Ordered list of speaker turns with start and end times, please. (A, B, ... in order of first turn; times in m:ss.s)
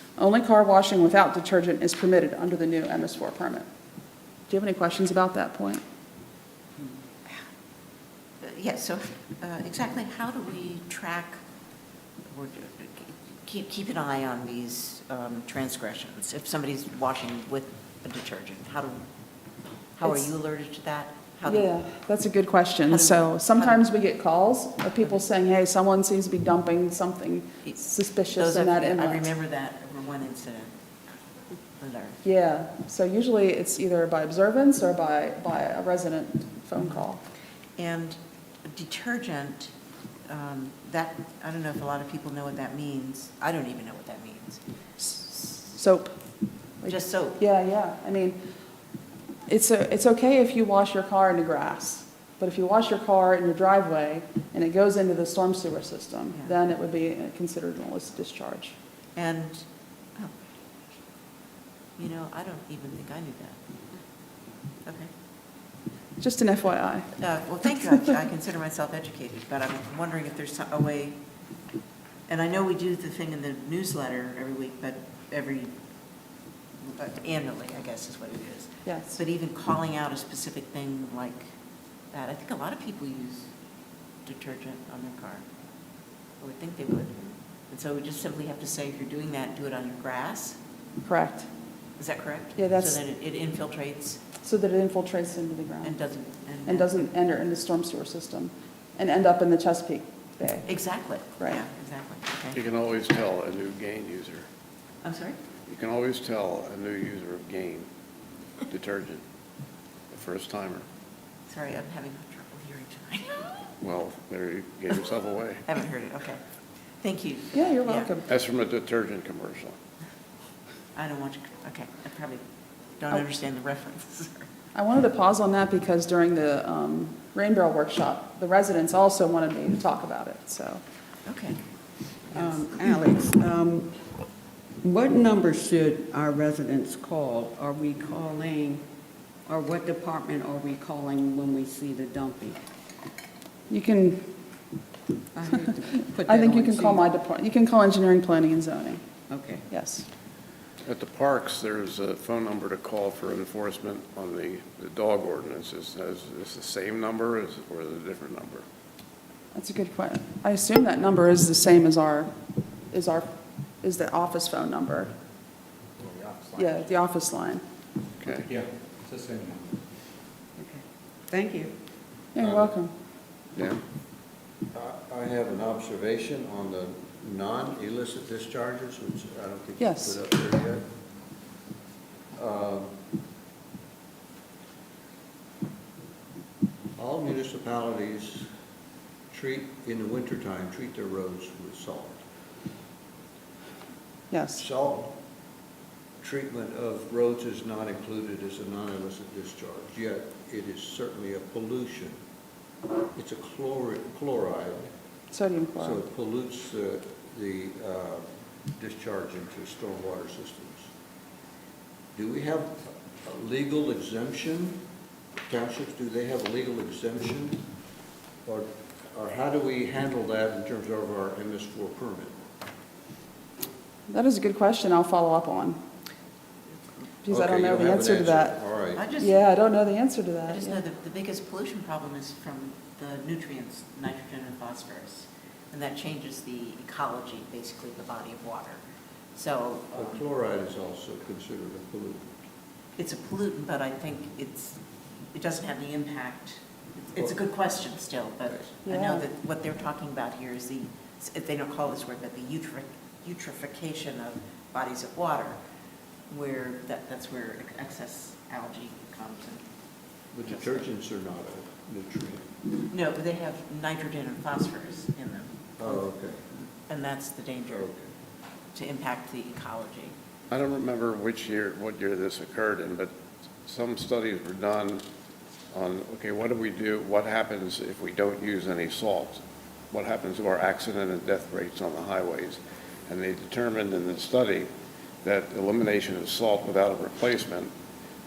0:00.2-0:03.7 A
0:04.5-0:05.8 A
0:08.4-0:11.4 B
0:12.3-0:19.0 B
0:20.0-0:21.7 B
0:21.5-0:29.3 A
0:22.9-0:23.8 B
0:28.3-0:30.7 B
0:31.8-0:32.2 B
0:32.2-0:37.2 A
0:37.8-0:38.2 B
0:38.7-0:39.7 B
0:40.3-0:44.6 B
0:45.0-0:46.2 A
0:46.8-0:48.4 A
0:46.9-0:47.4 B
0:49.5-0:58.8 A
0:59.2-0:59.6 B
1:02.0-1:03.6 B
1:06.2-1:07.1 A
1:07.2-1:11.2 B
1:12.3-1:15.7 B
1:16.9-1:21.4 B
1:18.9-1:19.2 A
1:22.1-1:23.5 B
1:24.2-1:25.4 B
1:26.4-1:30.6 B
1:31.0-1:31.5 A
1:32.0-1:34.2 B
1:32.6-1:33.0 A
1:34.4-1:35.9 A
1:35.8-1:36.9 B
1:36.7-1:40.7 A
1:40.7-1:42.6 B
1:42.5-1:44.4 C
1:45.0-1:45.4 B
1:45.7-1:47.9 C
1:48.7-1:49.2 C
1:50.1-1:50.8 C
1:51.5-1:53.6 B
1:53.8-1:55.6 C
1:55.7-1:56.4 B
1:57.0-1:58.1 B
1:57.5-1:58.2 A
1:58.3-1:59.8 C
2:01.0-2:02.4 B
2:03.0-2:04.5 B
2:04.8-2:10.8 A
2:11.3-2:11.6 B
2:12.3-2:12.6 B
2:12.3-2:13.9 D
2:14.8-2:18.8 D
2:19.5-2:22.6 D
2:23.7-2:24.3 A
2:25.3-2:27.1 D
2:26.2-2:29.0 A
2:29.3-2:29.6 D
2:29.7-2:30.1 A
2:30.8-2:38.6 C
2:39.5-2:42.3 A
2:42.9-2:43.3 A
2:43.8-2:45.1 A
2:46.0-2:46.6 E
2:46.6-2:47.6 A
2:48.2-2:48.5 C
2:48.5-2:49.8 E
2:50.6-2:51.7 D
2:52.4-2:52.9 A
2:53.6-2:53.8 C
2:54.7-3:00.9 F
2:59.8-3:00.2 A
3:02.4-3:02.9 F
3:07.0-3:08.5 F
3:09.3-3:12.2 F
3:14.3-3:14.6 A
3:14.6-3:15.1 F
3:16.2-3:22.2 F
3:23.2-3:24.9 F
3:25.3-3:26.0 A
3:25.8-3:30.9 F
3:32.2-3:34.8 F
3:35.5-3:37.6 F
3:38.4-3:42.3 F
3:44.1-3:45.8 A
3:47.2-3:48.6 A
3:47.3-3:49.1 F
3:49.0-3:49.4 B
3:49.2-3:50.8 A
3:50.5-3:58.8 B
3:59.4-4:00.2 B
3:59.9-4:02.3 F
4:03.0-4:04.8 B
4:05.3-4:15.6 B
4:08.9-4:09.2 A
4:16.3-4:19.6 B
4:20.3-4:22.5 F
4:20.5-4:20.8 B
4:22.9-4:26.0 B
4:25.8-4:26.4 F
4:26.6-4:27.9 B
4:27.7-4:28.1 F
4:28.7-4:30.1 B
4:30.5-4:33.1 C
4:33.6-4:35.0 C
4:35.7-4:39.4 C
4:39.9-4:44.7 C
4:45.2-4:47.7 C